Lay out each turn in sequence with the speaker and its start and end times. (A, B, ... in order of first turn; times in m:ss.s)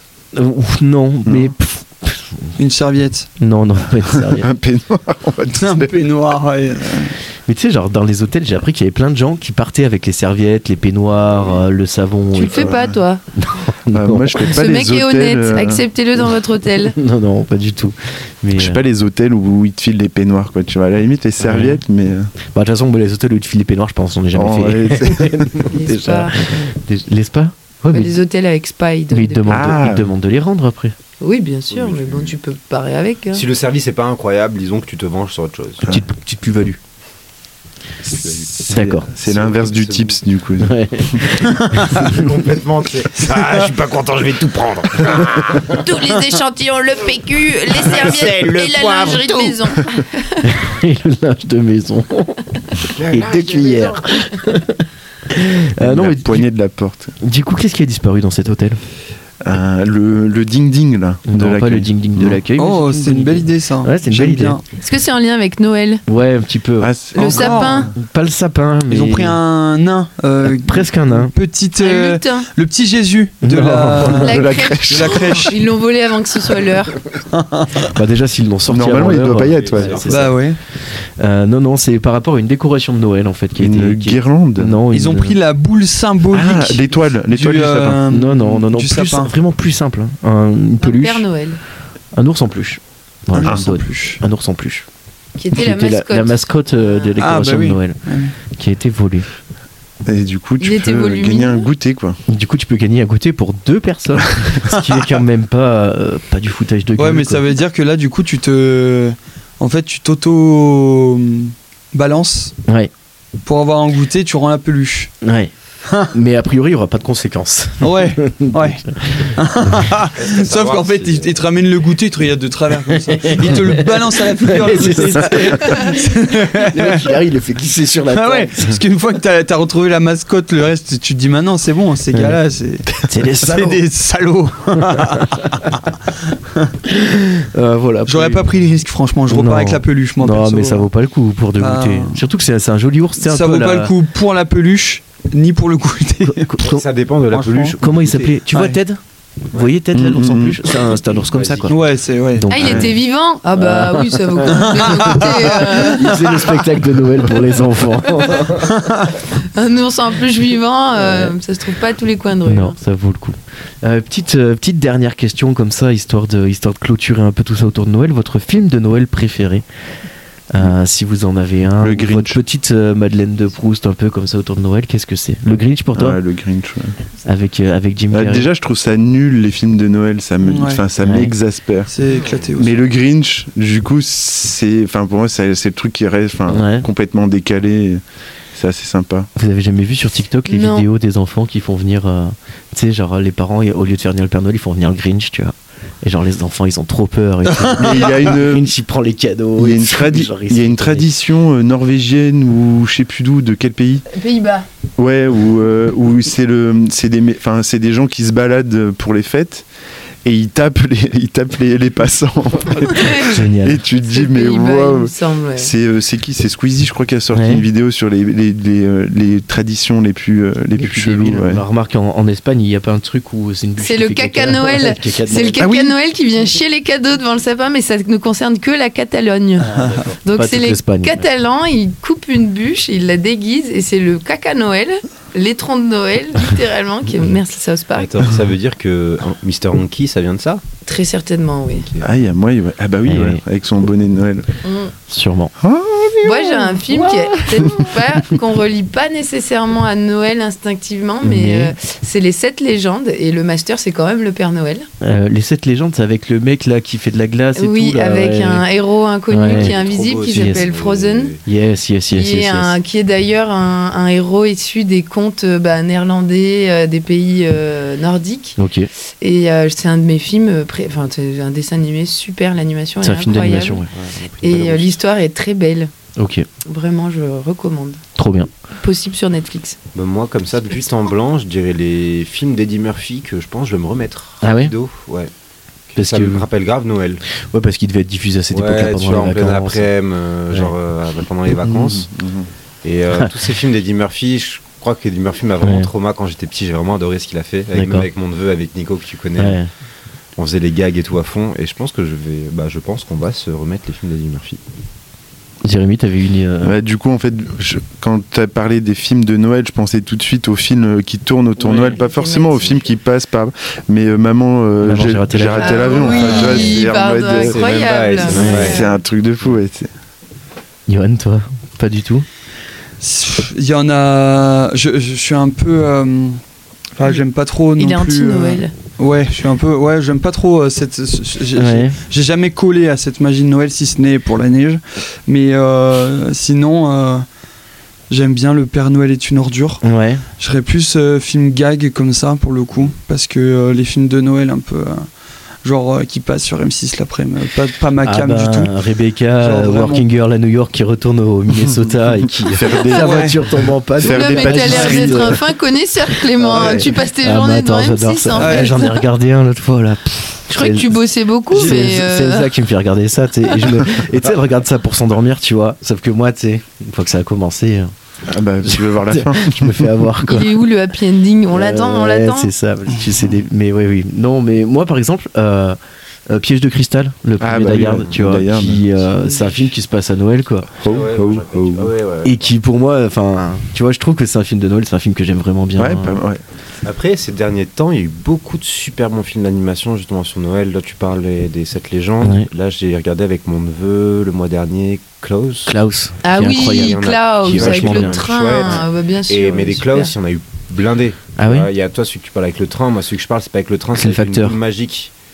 0:00.3-0:02.5 A
0:01.2-0:01.5 B
0:02.6-0:03.3 C
0:03.4-0:04.5 A
0:04.1-0:05.9 B
0:05.6-0:07.2 C
0:07.5-0:12.8 A
0:12.3-0:13.2 D
0:12.5-0:13.0 B
0:13.4-0:14.4 A
0:13.9-0:15.8 B
0:14.4-0:17.0 D
0:16.8-0:18.8 A
0:18.6-0:22.3 B
0:21.4-0:21.8 A
0:22.5-0:28.2 A
0:24.3-0:25.5 B
0:25.7-0:26.7 D
0:27.9-0:29.7 D
0:29.1-0:30.9 A
0:29.5-0:30.1 B
0:31.2-0:33.4 D
0:31.7-0:32.3 E
0:33.3-0:35.9 E
0:35.9-0:36.8 A
0:38.0-0:40.2 E
0:38.5-0:41.2 B
0:38.7-0:39.1 A
0:40.6-0:42.2 A
0:41.6-0:41.8 C
0:41.8-0:46.1 E
0:45.7-0:50.4 D
0:47.7-0:49.8 E
0:50.4-0:56.5 A
0:52.9-0:54.0 E
0:55.8-0:57.1 B
0:57.2-0:58.8 A
0:59.4-1:02.4 B
1:01.3-1:04.6 A
1:02.6-1:04.6 C
1:04.8-1:06.0 D
1:06.1-1:09.4 A
1:06.8-1:07.8 B
1:07.1-1:07.9 C
1:07.2-1:07.9 D
1:08.9-1:15.6 C
1:10.4-1:11.3 A
1:11.8-1:12.5 D
1:13.4-1:14.3 A
1:14.1-1:17.0 D
1:14.2-1:15.4 B
1:17.3-1:17.9 C
1:17.8-1:20.4 A
1:18.7-1:20.2 B
1:19.4-1:20.3 E
1:20.1-1:20.6 C
1:21.2-1:25.4 A
1:23.6-1:24.8 B
1:24.9-1:29.3 C
1:26.3-1:28.0 B
1:28.1-1:31.2 A
1:30.8-1:31.6 D
1:32.1-1:34.8 A
1:33.4-1:34.2 C
1:33.4-1:33.7 B
1:35.4-1:37.1 D
1:35.5-1:39.3 A
1:37.2-1:38.4 C
1:40.0-1:42.2 B
1:40.6-1:41.6 D
1:42.3-1:47.4 A
1:47.0-1:52.5 C
1:53.4-1:55.1 C
1:55.2-1:55.5 A
1:55.9-1:56.1 C
1:56.1-1:59.3 A
1:57.8-2:07.2 C
2:00.2-2:01.4 E
2:03.1-2:08.8 A
2:08.1-2:16.7 C
2:13.1-2:13.8 A
2:14.9-2:15.2 A
2:16.9-2:18.5 A
2:18.0-2:20.9 C
2:19.3-2:23.9 A
2:21.6-2:22.2 C
2:23.2-2:26.6 C
2:26.3-2:26.8 A
2:26.6-2:28.4 E
2:27.3-2:27.8 C
2:27.8-2:31.8 A
2:28.5-2:28.8 C
2:29.9-2:30.6 B
2:31.0-2:31.8 E
2:31.7-2:32.5 C
2:32.3-2:33.0 A
2:32.5-2:36.1 D
2:32.6-2:32.9 B
2:33.6-2:38.7 A
2:34.5-2:36.6 C
2:38.4-2:39.1 C
2:39.4-2:42.8 D
2:42.4-2:49.6 A
2:50.5-2:56.2 A
2:51.8-2:52.4 B
2:56.0-2:57.0 B
2:57.2-2:58.5 A
2:58.1-3:01.9 B
3:00.4-3:00.8 C
3:01.0-3:01.3 A
3:01.9-3:02.8 C
3:02.6-3:08.0 B
3:06.5-3:06.9 A
3:08.5-3:09.3 B
3:09.4-3:21.1 A
3:10.5-3:10.8 D
3:17.5-3:18.1 C
3:17.8-3:18.7 B
3:19.6-3:24.0 B
3:24.1-3:24.6 D
3:25.0-3:29.6 B
3:30.2-3:41.6 B
3:32.9-3:33.3 D
3:33.3-3:33.8 A
3:34.0-3:35.7 D
3:37.3-3:37.6 A
3:40.8-3:45.6 A
3:43.8-3:49.7 D
3:45.5-3:45.9 B
3:49.6-3:51.2 A
3:49.7-3:50.1 C
3:50.2-3:58.1 D
3:58.0-4:00.6 E
4:00.8-4:01.9 D
4:01.8-4:02.2 E
4:02.0-4:04.5 B
4:03.0-4:03.4 A
4:04.6-4:04.9 D
4:05.1-4:05.5 A
4:05.6-4:08.2 B
4:06.2-4:14.9 D
4:11.2-4:11.7 A
4:15.0-4:18.6 A
4:17.6-4:21.3 D
4:19.3-4:19.8 A
4:19.5-4:21.4 E
4:20.3-4:20.7 A
4:21.4-4:22.8 A
4:22.1-4:28.6 D
4:28.6-4:28.9 A
4:29.2-4:33.8 D
4:33.0-4:33.9 A
4:33.9-4:34.9 E
4:34.4-4:35.9 D
4:36.2-4:36.5 A
4:36.6-4:38.0 D
4:38.2-4:38.5 A
4:38.8-4:39.8 D
4:39.9-4:45.3 E
4:44.4-4:44.7 A
4:45.9-4:47.2 E
4:46.0-4:46.4 A
4:47.5-4:49.9 A
4:48.5-4:52.1 E
4:51.6-4:52.5 B
4:52.8-4:59.6 E
4:55.6-4:55.9 A
4:57.7-4:58.1 A
4:59.4-4:59.7 A
5:00.4-5:04.6 E
5:05.6-5:06.8 A
5:06.6-5:17.6 B
5:11.6-5:12.0 E
5:11.9-5:12.9 D
5:14.8-5:16.6 A
5:15.6-5:18.9 D
5:16.2-5:16.7 E
5:17.4-5:18.8 E
5:18.2-5:19.9 B
5:18.2-5:18.8 A
5:20.9-5:22.2 A
5:23.0-5:26.4 C
5:27.0-5:37.2 C
5:27.8-5:28.7 D
5:31.6-5:32.0 A
5:38.1-5:39.8 C
5:39.8-5:40.2 A
5:40.4-5:45.1 C
5:45.6-5:48.8 C
5:48.0-5:55.4 A
5:49.4-5:50.0 C
5:51.6-5:53.4 B
5:53.0-5:53.4 C
5:54.0-5:55.2 B
5:54.0-5:59.0 D
5:54.6-5:55.1 C
5:56.4-6:07.9 A
5:56.5-5:56.8 C
5:58.4-5:58.8 C
6:00.5-6:02.5 D
6:03.5-6:03.8 D
6:08.3-6:10.1 B
6:08.6-6:10.5 A
6:10.2-6:12.5 D
6:11.5-6:15.8 A
6:16.3-6:20.7 A
6:17.4-6:19.0 B
6:17.8-6:18.2 E
6:20.8-6:21.9 B
6:20.8-6:22.4 E
6:22.2-6:26.2 A
6:25.8-6:26.4 B
6:26.8-6:35.7 E
6:32.2-6:32.5 A
6:35.7-6:38.8 A
6:36.2-6:40.1 D
6:36.5-6:45.1 E
6:41.4-6:41.7 A
6:43.9-6:44.6 A